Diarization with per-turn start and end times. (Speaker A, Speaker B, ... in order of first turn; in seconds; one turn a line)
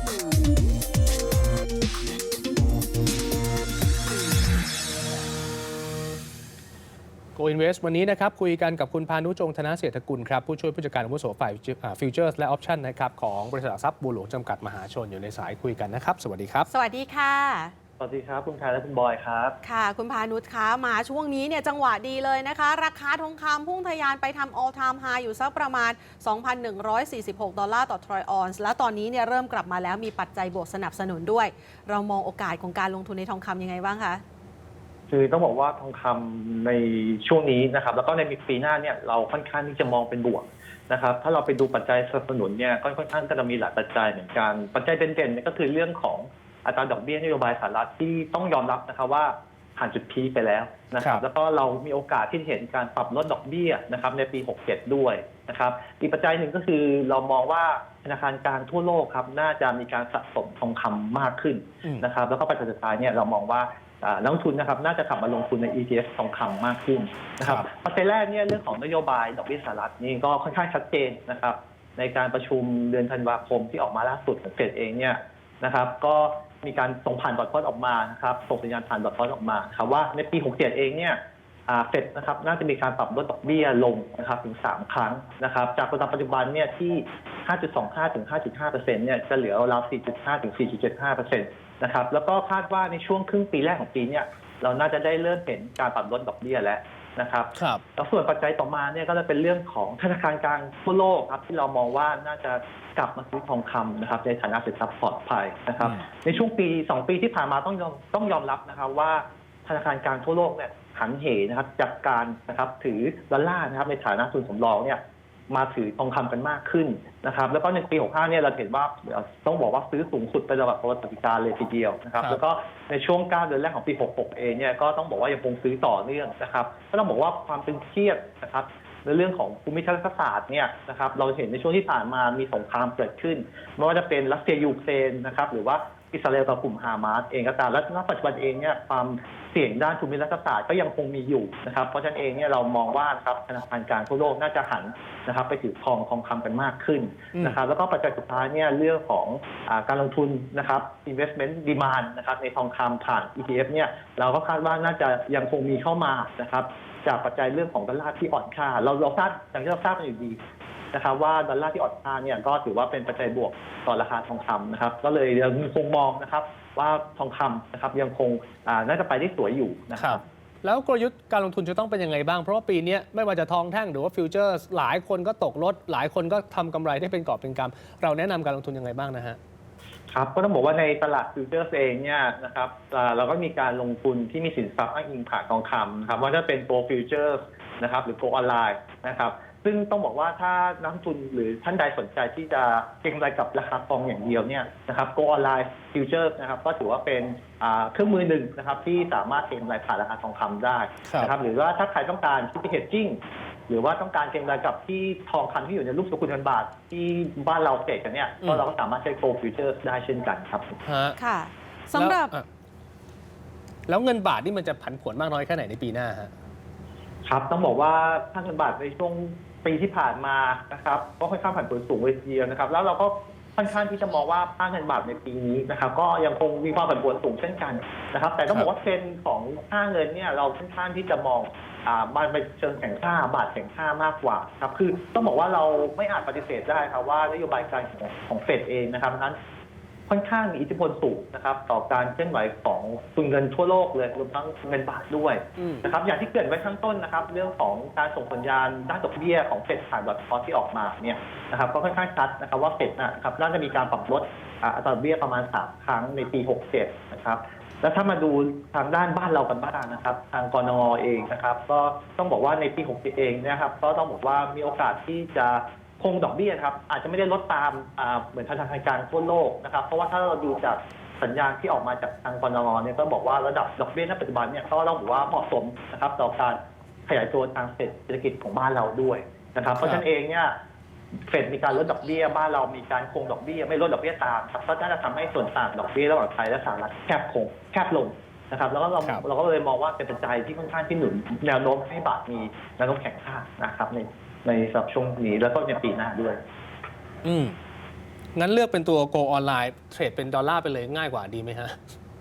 Speaker A: 7.3-16.7
Speaker B: 16.7-17.7
Speaker C: 18.0-19.6
Speaker B: 19.6-34.2
Speaker C: 35.1-160.4
Speaker A: 97.5-97.8
Speaker A: 105.8-106.0
Speaker C: 160.9-170.2
Speaker A: 170.0-179.4
Speaker C: 180.1-210.7
Speaker A: 201.0-201.3
Speaker A: 210.8-211.2
Speaker B: 211.2-212.3
Speaker A: 211.9-212.4
Speaker A: 213.9-216.3
Speaker C: 217.2-239.4
Speaker C: 240.1-280.5
Speaker A: 245.6-245.8
Speaker C: 281.3-296.4
Speaker A: 297.2-297.6
Speaker A: 298.3-301.8